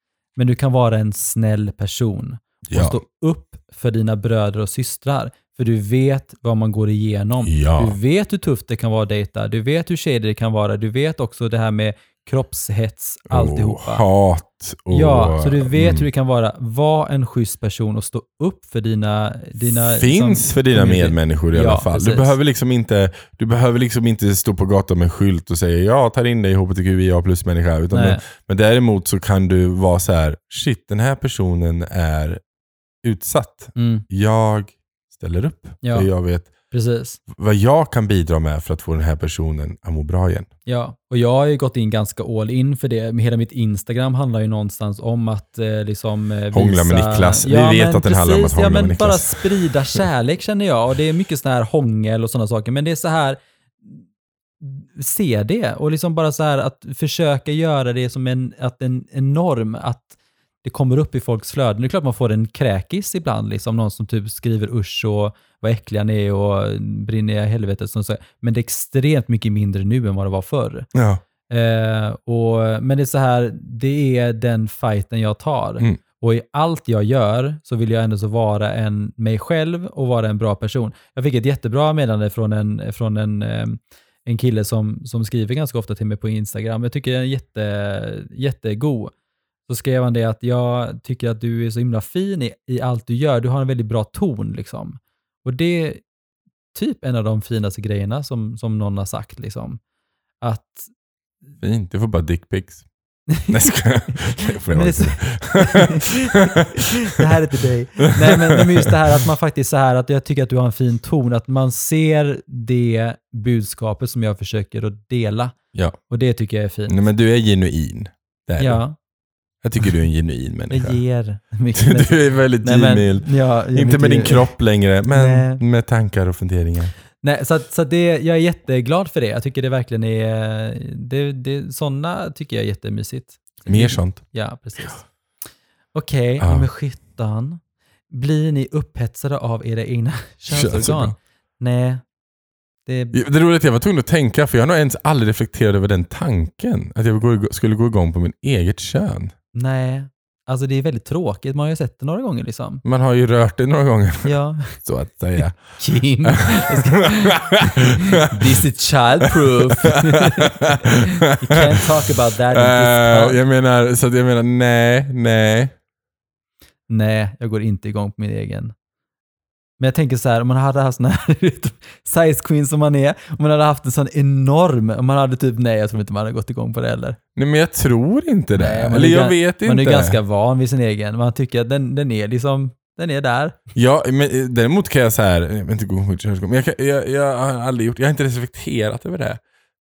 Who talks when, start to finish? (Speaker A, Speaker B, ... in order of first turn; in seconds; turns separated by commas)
Speaker A: 0.3-14.0, Speaker B: 2.7-3.0, Speaker B: 7.4-8.0, Speaker B: 13.3-16.1, Speaker A: 14.9-22.3, Speaker B: 19.6-32.4, Speaker A: 27.9-28.2, Speaker B: 33.0-36.5, Speaker A: 33.8-34.0, Speaker A: 35.8-36.1, Speaker A: 36.7-37.2, Speaker B: 37.3-40.5, Speaker A: 40.6-54.0, Speaker B: 46.5-50.0, Speaker A: 54.6-60.1, Speaker A: 60.6-70.9, Speaker B: 70.9-71.2, Speaker A: 71.5-89.1, Speaker A: 89.7-96.0, Speaker A: 96.7-99.8, Speaker A: 100.4-100.9, Speaker B: 101.6-102.8, Speaker B: 103.5-106.9, Speaker A: 104.1-115.5, Speaker B: 108.0-108.9, Speaker A: 116.1-117.0, Speaker B: 116.9-118.8, Speaker A: 118.6-119.0, Speaker B: 119.6-121.0, Speaker A: 120.7-124.5, Speaker B: 121.7-126.9, Speaker A: 125.1-125.6, Speaker A: 127.2-135.0, Speaker B: 133.7-134.2, Speaker A: 135.9-142.0, Speaker B: 136.4-136.7, Speaker B: 140.5-141.1, Speaker A: 142.8-143.2, Speaker B: 143.1-149.3, Speaker A: 149.5-152.8, Speaker B: 152.8-158.6, Speaker A: 154.2-154.8, Speaker A: 155.8-163.4, Speaker B: 159.3-161.8, Speaker B: 162.5-165.7, Speaker A: 166.9-168.7, Speaker A: 169.8-177.2, Speaker B: 177.3-180.2, Speaker A: 178.5-183.6, Speaker B: 183.7-189.4